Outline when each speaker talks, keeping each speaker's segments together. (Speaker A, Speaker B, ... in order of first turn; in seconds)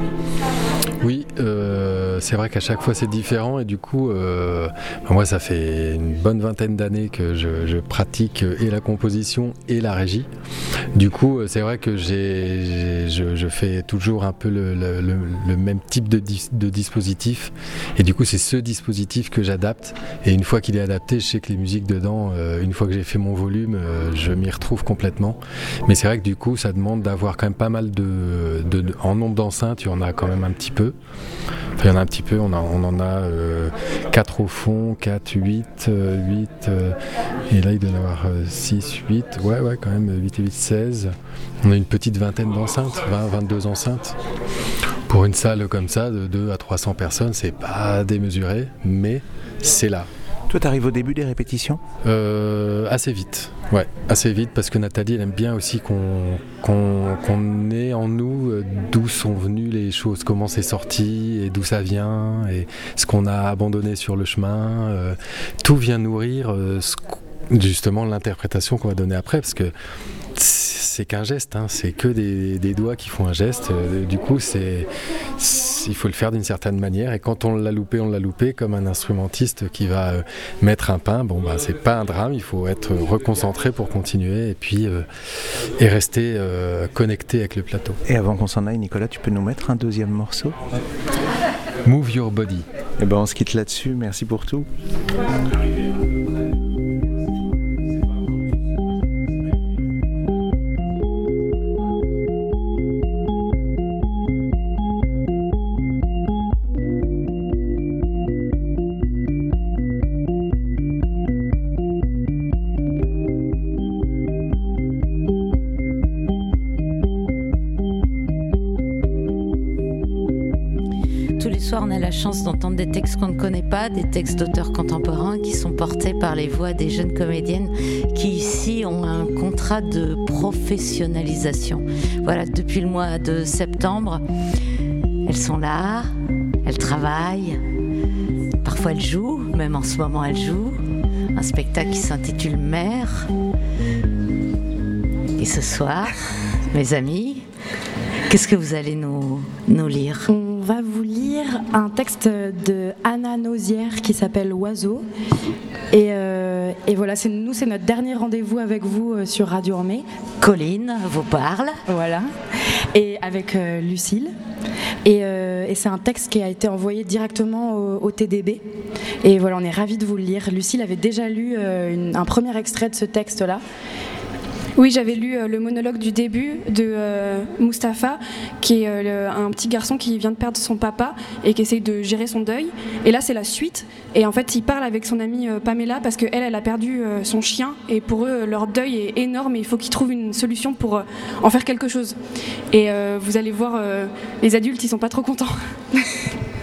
Speaker A: 1.0-10.3, 10.9-30.9, 31.8-37.0, 37.5-44.2, 45.1-50.1, 52.0-69.7, 70.4-85.1, 85.8-88.0, 91.8-92.7
Speaker B: 50.5-51.8, 88.1-90.6, 93.0-94.7
Speaker C: 121.4-134.2, 135.3-136.1, 136.6-137.6, 138.6-140.8, 141.3-143.3, 145.4-146.2, 146.7-147.4, 148.3-150.3, 160.4-161.8
Speaker D: 150.3-155.1, 155.9-160.1, 161.9-162.3, 162.9-164.3, 165.0-168.6, 169.2-173.6
Speaker E: 174.8-192.2, 192.7-196.0